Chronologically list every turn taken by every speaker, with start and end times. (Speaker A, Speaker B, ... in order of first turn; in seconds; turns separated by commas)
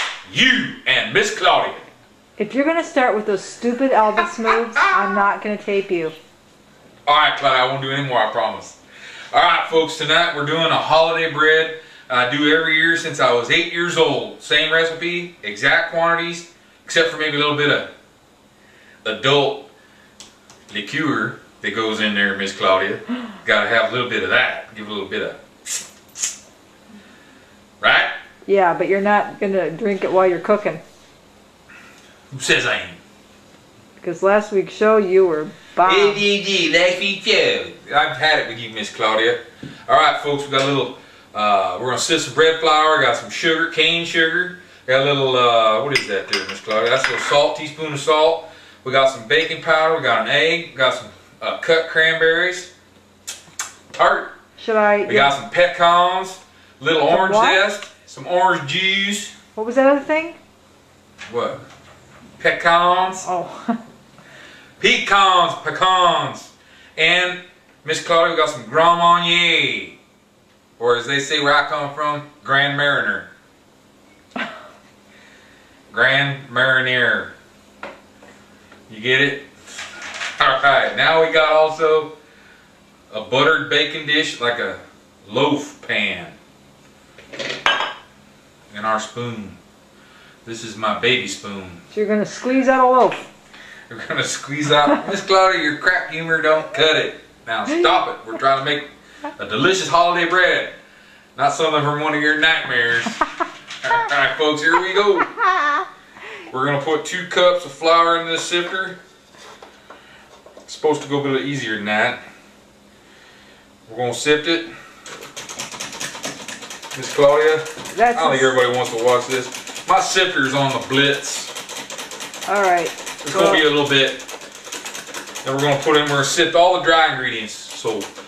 Speaker A: 0.3-1.9, Speaker B: 2.4-6.2, Speaker A: 7.1-8.8, Speaker A: 9.3-17.9, Speaker A: 19.0-19.7, Speaker A: 20.7-25.4, Speaker A: 27.8-28.1, Speaker B: 28.5-30.8, Speaker A: 32.3-33.0, Speaker B: 34.0-36.2, Speaker A: 35.9-52.7, Speaker A: 54.0-54.3, Speaker B: 54.6-55.3, Speaker A: 55.1-59.3, Speaker B: 57.1-57.6, Speaker B: 59.6-60.4, Speaker A: 61.3-61.6, Speaker A: 62.4-63.3, Speaker B: 63.2-63.8, Speaker A: 64.8-70.0, Speaker A: 70.8-73.3, Speaker A: 75.9-77.3, Speaker A: 78.9-79.5, Speaker A: 80.4-82.1, Speaker A: 83.1-86.4, Speaker A: 88.7-89.6, Speaker A: 90.5-91.8, Speaker B: 91.9-93.3, Speaker A: 93.9-100.8, Speaker A: 101.4-103.3, Speaker A: 103.8-105.4, Speaker A: 106.5-109.0, Speaker A: 110.7-112.2, Speaker A: 113.9-114.7, Speaker A: 116.9-121.6, Speaker B: 117.9-118.5, Speaker B: 122.5-123.6, Speaker A: 123.2-124.3, Speaker A: 125.4-128.1